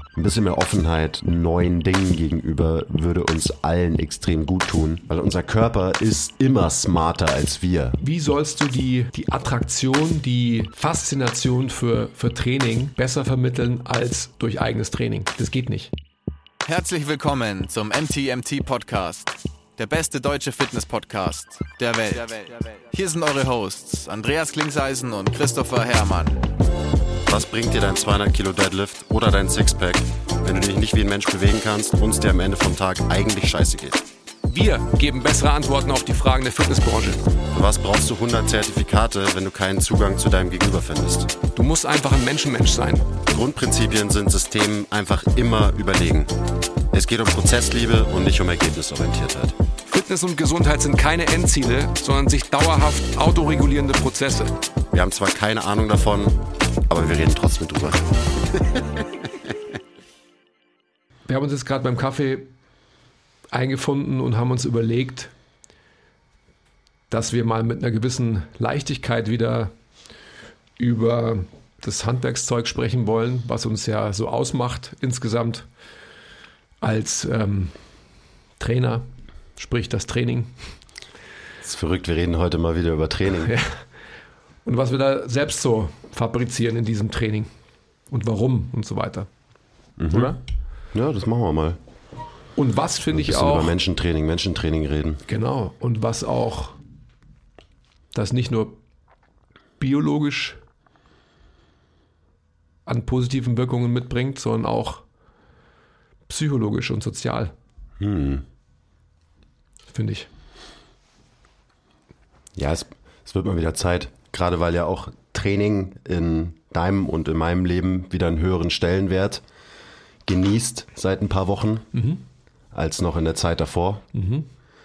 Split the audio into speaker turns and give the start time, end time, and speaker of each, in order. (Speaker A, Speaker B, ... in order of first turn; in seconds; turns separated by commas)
Speaker A: 0.2-8.0, Speaker B: 8.0-15.9, Speaker C: 16.6-26.4, Speaker A: 27.3-34.0, Speaker B: 34.5-37.2, Speaker A: 37.5-41.4, Speaker B: 41.5-43.1, Speaker A: 43.3-46.3, Speaker A: 46.9-49.6, Speaker B: 49.9-54.5, Speaker A: 54.9-58.1, Speaker B: 61.3-62.5, Speaker B: 63.5-65.3, Speaker B: 67.1-69.7, Speaker B: 70.8-75.7, Speaker B: 76.8-77.8, Speaker B: 78.6-80.5, Speaker A: 81.6-83.6, Speaker B: 83.5-83.8, Speaker B: 84.7-87.5, Speaker B: 88.1-89.3, Speaker A: 90.0-90.4, Speaker B: 90.1-90.4, Speaker A: 90.9-91.8, Speaker B: 92.6-93.8, Speaker A: 93.1-95.2, Speaker B: 95.3-96.8, Speaker B: 98.1-98.8, Speaker B: 99.8-100.6, Speaker B: 102.9-105.0, Speaker B: 106.3-107.5, Speaker A: 108.0-108.5, Speaker B: 109.9-110.3, Speaker A: 112.6-119.4, Speaker A: 120.3-121.9, Speaker B: 121.9-122.2, Speaker A: 122.7-124.0, Speaker B: 124.1-124.5